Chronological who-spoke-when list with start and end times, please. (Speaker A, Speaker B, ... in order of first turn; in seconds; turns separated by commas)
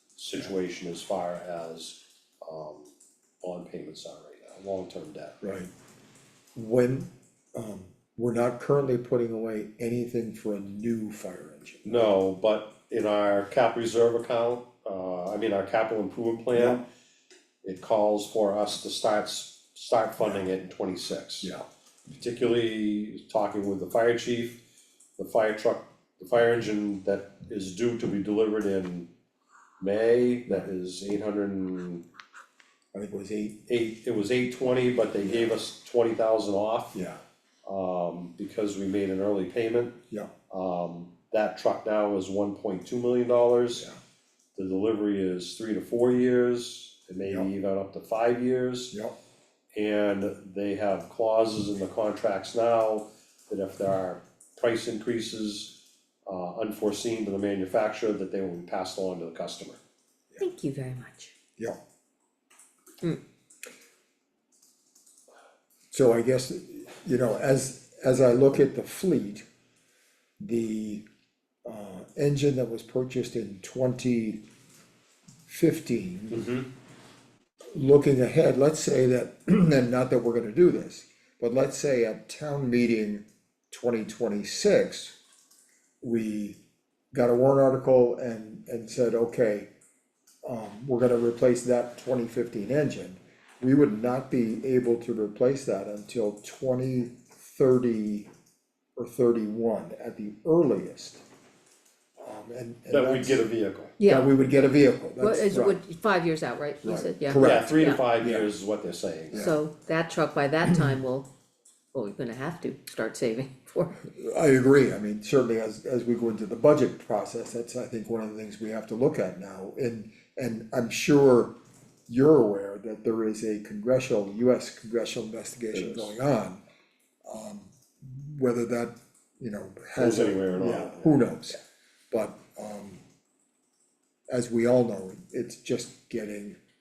Speaker A: 0.1-5.4, Speaker B: 5.4-5.7, Speaker B: 6.5-12.1, Speaker A: 11.8-16.8, Speaker B: 16.5-16.8, Speaker A: 17.6-21.5, Speaker A: 22.1-24.6, Speaker A: 25.2-29.1, Speaker A: 29.8-32.0, Speaker B: 32.9-33.6, Speaker A: 33.7-37.0, Speaker B: 35.2-35.6, Speaker B: 36.9-37.2, Speaker A: 37.6-40.0, Speaker A: 40.5-43.9, Speaker A: 44.5-49.0, Speaker A: 49.7-59.8, Speaker C: 60.4-61.3, Speaker B: 65.9-69.4, Speaker B: 70.4-71.0, Speaker B: 71.6-74.4, Speaker B: 75.5-76.4, Speaker A: 76.3-76.7, Speaker B: 77.7-85.2, Speaker B: 86.0-86.6, Speaker B: 87.1-89.7, Speaker B: 90.4-98.3, Speaker B: 99.0-101.2, Speaker B: 102.2-103.4, Speaker A: 102.9-103.9, Speaker C: 104.0-104.3, Speaker B: 104.0-105.8, Speaker C: 105.2-108.0, Speaker B: 106.8-108.5, Speaker A: 107.4-109.5, Speaker B: 109.3-109.5, Speaker C: 109.3-111.3, Speaker B: 110.7-111.0, Speaker C: 111.9-114.0, Speaker B: 114.1-121.5, Speaker B: 122.1-126.6, Speaker A: 125.7-126.1, Speaker B: 127.2-131.6, Speaker A: 130.0-131.2, Speaker B: 132.1-133.0, Speaker B: 134.3-136.6